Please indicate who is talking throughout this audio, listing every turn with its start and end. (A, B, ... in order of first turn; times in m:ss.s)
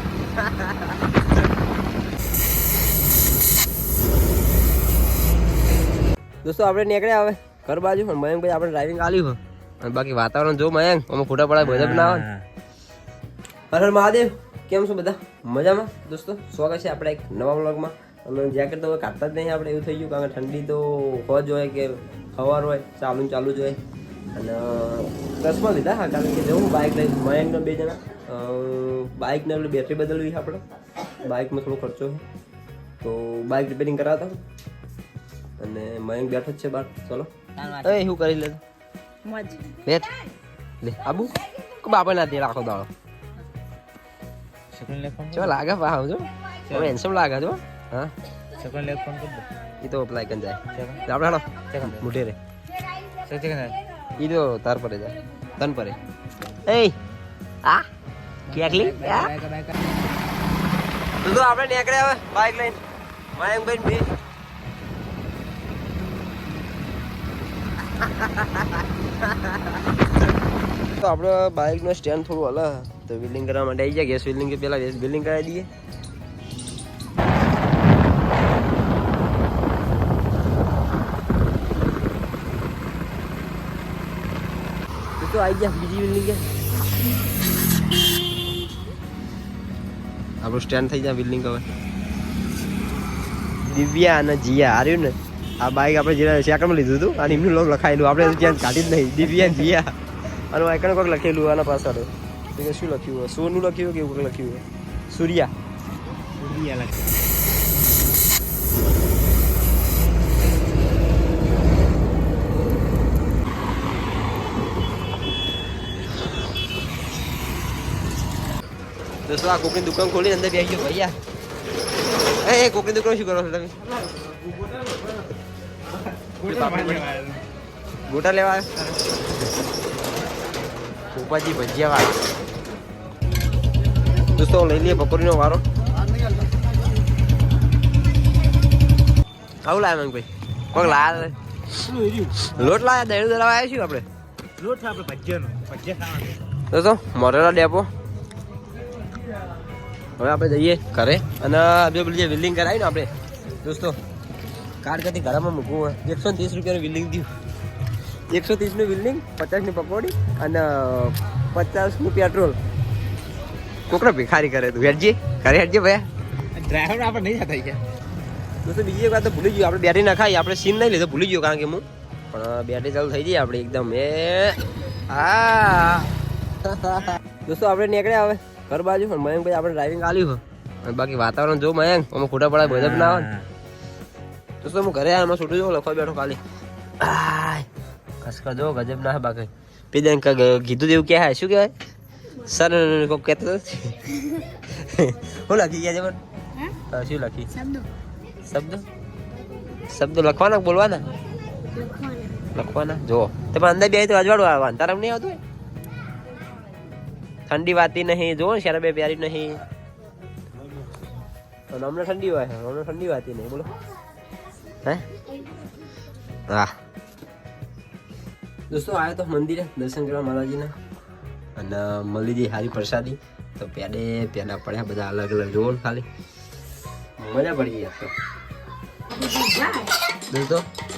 0:00.4-0:00.9 A
0:06.4-0:12.3 A
0:11.6-0:12.5 B
0:13.7-0:23.8 A
0:24.3-0:30.6 A
0:31.2-0:32.2 A
0:33.0-0:34.4 A
0:35.6-0:38.6 A
0:37.6-0:38.0 B
0:39.3-0:39.5 C
0:39.8-0:40.1 A
0:40.8-0:42.9 A
0:44.7-0:45.6 B
0:45.3-0:48.1 A
0:46.7-0:47.0 B
0:48.6-0:49.5 B
0:49.8-0:52.4 A
0:50.7-0:51.0 B
0:51.7-0:52.0 B
0:53.2-0:53.8 B
0:54.2-0:56.0 A
0:56.6-0:57.0 A
0:58.5-0:59.4 A
0:58.5-1:00.0 B
1:01.2-1:02.8 A
1:03.4-1:04.1 A
1:08.0-1:09.8 A
1:11.0-1:15.7 A
1:25.2-1:26.4 A
1:30.4-1:31.7 A
1:33.6-1:40.0 A
1:40.5-1:45.5 A
1:46.4-1:47.1 B
1:59.3-2:01.2 A
2:02.4-2:03.9 A
2:06.4-2:07.4 B
2:06.4-2:07.2 A
2:08.1-2:08.8 A
2:11.2-2:12.1 A
2:14.4-2:15.6 A
2:19.6-2:21.4 A
2:21.9-2:22.5 B
2:22.4-2:24.1 A
2:24.6-2:26.4 B
2:26.7-2:27.9 A
2:30.2-2:34.0 A
2:34.8-2:37.3 A
2:38.3-2:42.6 A
2:43.9-2:46.1 A
2:46.5-2:47.8 B
2:48.6-3:03.3 A
3:02.6-3:03.5 B
3:04.6-3:06.4 A
3:07.0-3:07.7 A
3:08.2-3:11.7 A
3:12.4-3:16.2 A
3:16.8-3:17.6 A
3:17.6-3:17.9 C
3:18.4-3:18.9 A
3:19.9-3:21.1 A
3:21.7-3:22.5 C
3:22.5-3:25.4 A
3:27.5-3:29.6 A
3:31.7-3:33.7 A
3:36.5-3:36.8 A
3:38.7-3:40.8 A
3:41.6-3:46.1 A
3:47.2-3:48.1 A
3:49.2-3:49.9 C
3:50.3-3:50.7 A